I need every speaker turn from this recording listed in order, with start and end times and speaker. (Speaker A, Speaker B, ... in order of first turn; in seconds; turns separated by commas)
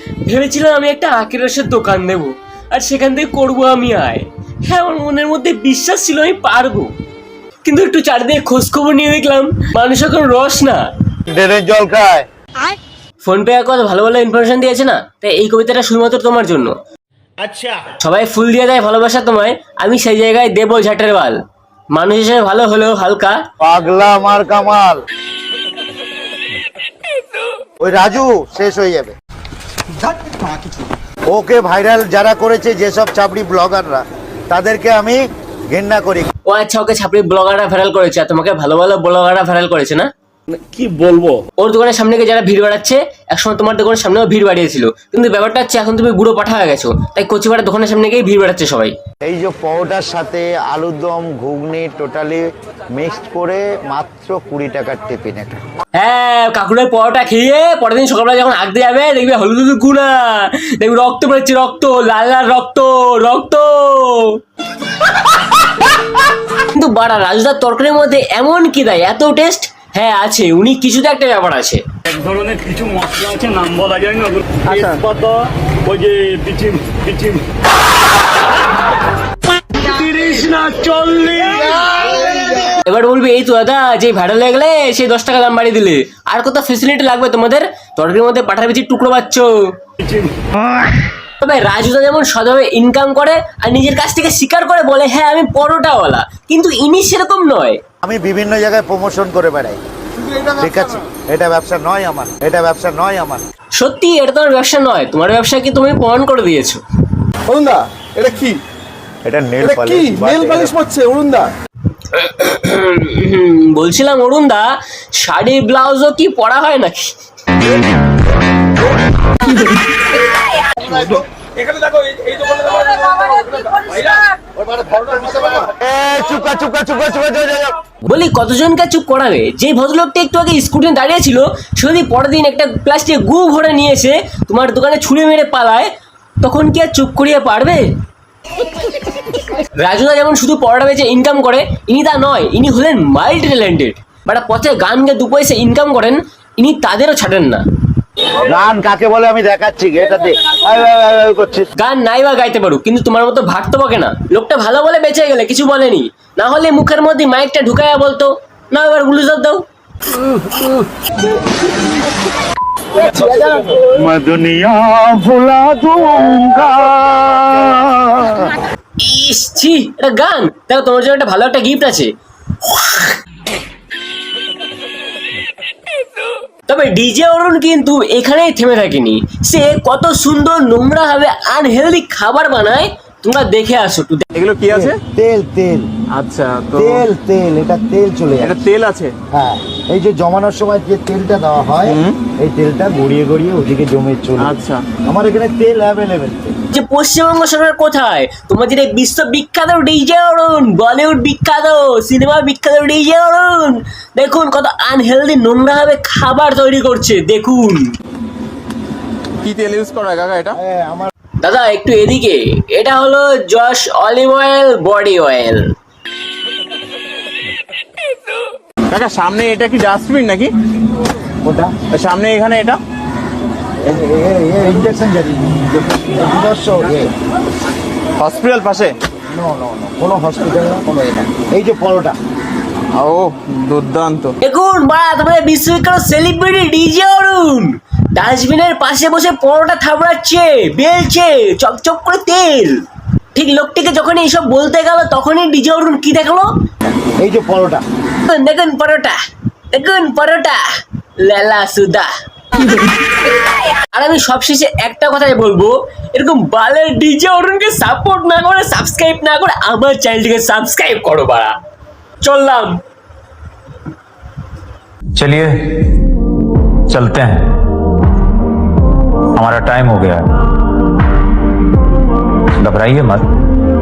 Speaker A: 0.2-6.9, Speaker A: 7.6-10.8, Speaker B: 11.3-12.2, Speaker A: 13.2-16.8, Speaker B: 17.4-17.8, Speaker A: 18.0-21.4, Speaker A: 21.9-23.4, Speaker B: 23.6-25.0, Speaker B: 27.8-29.1, Speaker B: 31.3-36.3, Speaker A: 36.5-40.1, Speaker C: 40.5-41.2, Speaker A: 41.6-48.9, Speaker B: 49.2-55.6, Speaker A: 55.9-64.4, Speaker A: 66.5-71.8, Speaker C: 72.2-77.4, Speaker C: 79.7-82.4, Speaker A: 82.7-89.7, Speaker A: 91.4-97.8, Speaker B: 98.0-99.8, Speaker D: 100.2-100.7, Speaker B: 100.6-103.4, Speaker A: 103.8-106.8, Speaker D: 107.5-108.6, Speaker B: 109.2-110.8, Speaker D: 109.6-111.5, Speaker A: 112.1-117.1, Speaker B: 124.6-127.8, Speaker A: 128.0-135.9, Speaker A: 136.4-137.9, Speaker A: 139.2-147.6, Speaker B: 148.4-151.7, Speaker A: 151.8-159.6, Speaker E: 164.0-168.4, Speaker A: 169.0-172.1, Speaker A: 172.6-173.2, Speaker A: 176.7-184.2, Speaker F: 184.3-184.9, Speaker B: 184.7-185.9, Speaker D: 186.1-186.7, Speaker F: 186.3-186.9, Speaker B: 186.7-188.6, Speaker F: 188.4-189.1, Speaker B: 189.3-196.5, Speaker F: 191.9-192.1, Speaker F: 194.4-194.8, Speaker A: 196.7-207.9, Speaker F: 209.4-210.6, Speaker B: 210.5-211.1, Speaker A: 211.4-215.7, Speaker F: 218.9-220.5, Speaker D: 219.4-220.5, Speaker B: 221.4-221.7, Speaker F: 221.9-222.8, Speaker D: 222.3-222.8, Speaker B: 223.8-227.1, Speaker F: 228.2-228.9, Speaker B: 229.3-232.2, Speaker F: 232.9-234.3, Speaker A: 234.4-242.8, Speaker A: 243.3-246.5, Speaker B: 247.2-247.8, Speaker A: 248.3-249.2, Speaker A: 249.7-250.6, Speaker A: 251.2-252.9, Speaker A: 253.9-261.5, Speaker A: 262.2-262.8, Speaker E: 265.1-265.5, Speaker E: 266.9-267.5, Speaker E: 269.4-270.2, Speaker E: 272.6-273.2